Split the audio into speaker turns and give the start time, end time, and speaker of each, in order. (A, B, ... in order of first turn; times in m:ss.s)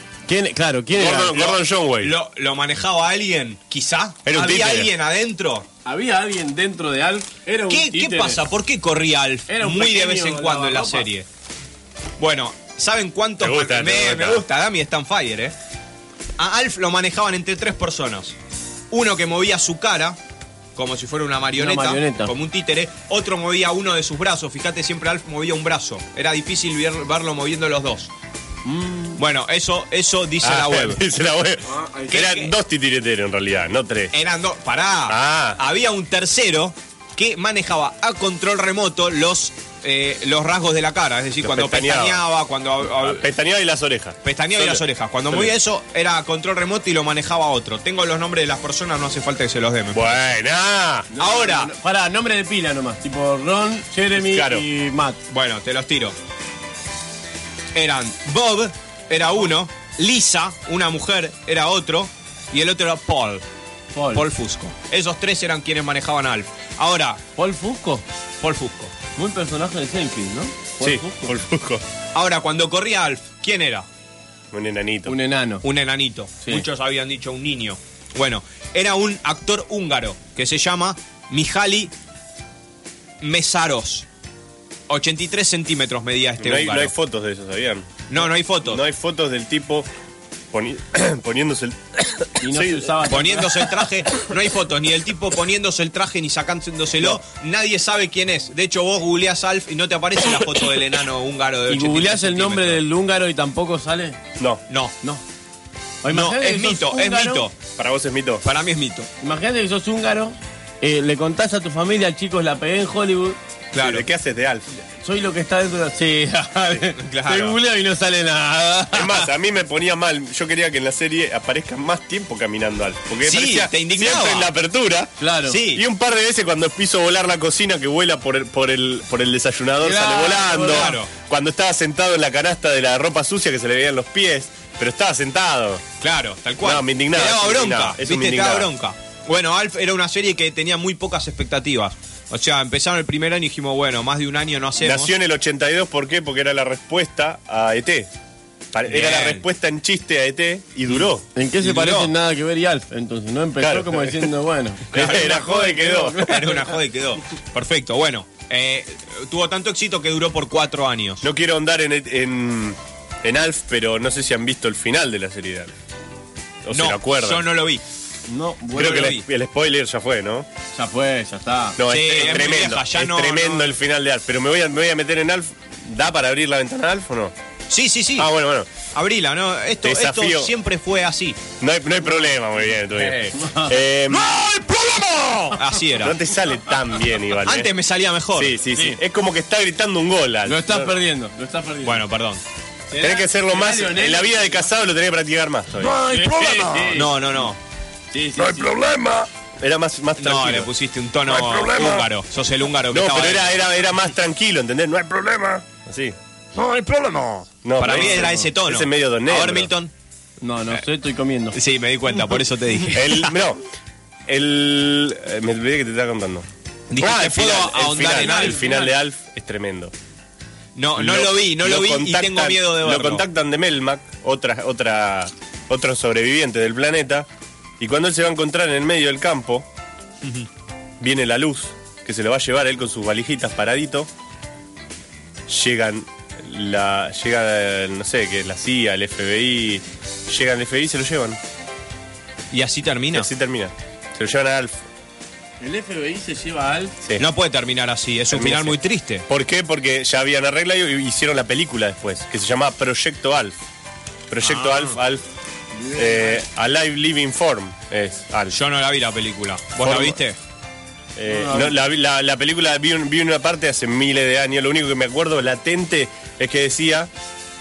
0:00.3-0:01.4 A
0:01.0-0:02.1 B
0:01.3-0:05.7 C
0:04.3-0:04.9 B
0:05.8-0:08.4 A
0:07.7-0:11.2 C
0:09.5-0:11.1 A
0:12.2-0:15.5 C
0:13.4-0:14.4 B
0:16.4-0:18.4 C
0:18.9-0:20.2 C
0:20.8-0:28.1 C
0:21.6-0:22.3 A
0:28.6-0:29.2 A
0:29.2-0:31.0 C
0:30.4-0:34.1 B
0:31.7-0:32.1 A
0:32.1-0:32.5 C
0:34.1-0:43.2 C
0:35.1-0:35.6 B
0:41.4-0:42.2 B
0:43.0-0:45.5 B
0:44.2-0:50.2 C
0:49.9-0:51.1 B
0:51.1-0:55.2 A
0:51.2-0:51.7 C
0:54.2-0:54.7 B
0:55.3-0:56.2 C
0:57.8-1:03.4 C
1:04.0-1:04.2 A
1:04.1-1:07.2 C
1:07.4-1:08.0 A
1:08.4-1:08.9 C
1:09.2-1:11.3 A
1:10.8-1:11.8 B
1:12.1-1:13.9 C
1:14.5-1:15.2 B
1:15.1-1:15.6 A
1:15.6-1:21.9 C
1:23.2-1:24.1 C
1:24.9-1:26.9 C
1:26.4-1:28.1 B
1:28.1-1:28.8 C
1:28.6-1:29.9 B
1:30.5-1:33.0 B
1:32.4-1:33.6 A
1:33.1-1:42.8 C
1:41.7-1:44.2 A
1:44.7-1:44.9 C
1:46.0-1:47.4 A
1:46.1-1:47.6 C
1:47.8-1:48.4 B
1:48.4-1:49.1 C
1:49.2-1:53.4 A
1:53.7-1:54.1 C
1:53.8-1:54.6 B
1:55.0-1:59.3 A
1:57.0-1:57.6 C
1:58.9-2:05.2 B
2:03.2-2:04.5 C
2:05.2-2:05.6 A
2:05.5-2:05.8 C
2:05.7-2:15.8 B
2:09.8-2:10.9 A
2:10.7-2:11.1 C
2:16.0-2:25.1 C
2:16.6-2:18.7 B
2:24.8-2:28.1 B
2:28.7-2:31.2 B
2:28.9-2:29.5 C
2:31.4-2:36.7 A
2:31.6-2:32.1 C
2:33.6-2:34.3 B
2:34.9-2:36.3 B
2:34.9-2:35.6 C
2:36.2-2:41.2 C
2:41.2-2:45.7 B
2:46.6-2:47.5 B
2:46.7-2:47.8 C
2:48.3-2:49.1 A
2:48.8-2:49.3 C
2:48.8-2:50.5 B
2:50.8-2:51.8 A
2:51.8-2:57.4 B
2:51.9-2:53.7 C
2:57.7-2:58.3 C
2:58.2-2:58.7 B
2:58.9-3:01.5 C
2:59.8-3:00.5 B
3:01.6-3:07.7 B
3:03.3-3:03.7 A
3:04.1-3:06.2 C
3:07.4-3:08.6 C
3:08.4-3:11.0 B
3:08.7-3:09.0 A
3:10.5-3:12.0 A
3:11.8-3:12.4 C
3:12.9-3:14.6 A
3:13.0-3:17.0 B
3:16.0-3:17.1 A
3:16.9-3:17.6 C
3:18.1-3:18.8 A
3:18.4-3:20.7 B
3:20.2-3:23.6 C
3:21.3-3:22.0 B
3:22.9-3:26.2 B
3:26.7-3:29.7 B
3:27.8-3:29.9 C
3:27.9-3:28.5 A
3:30.4-3:31.6 A
3:31.5-3:33.3 C
3:32.9-3:33.6 B
3:34.3-3:39.9 B
3:36.9-3:38.7 C
3:38.1-3:38.9 A
3:40.8-3:43.2 C
3:41.0-3:47.3 B
3:47.8-3:49.7 B
3:51.0-3:54.1 B
3:55.5-4:01.4 B
4:02.5-4:03.3 C
4:03.1-4:04.8 B
4:05.6-4:07.0 A
4:07.2-4:09.3 C
4:08.3-4:13.6 B
4:14.3-4:15.2 B
4:14.4-4:15.0 C
4:15.8-4:16.4 A
4:15.9-4:18.6 B
4:18.5-4:20.4 C
4:19.8-4:20.2 B
4:21.2-4:27.1 B
4:21.3-4:21.8 A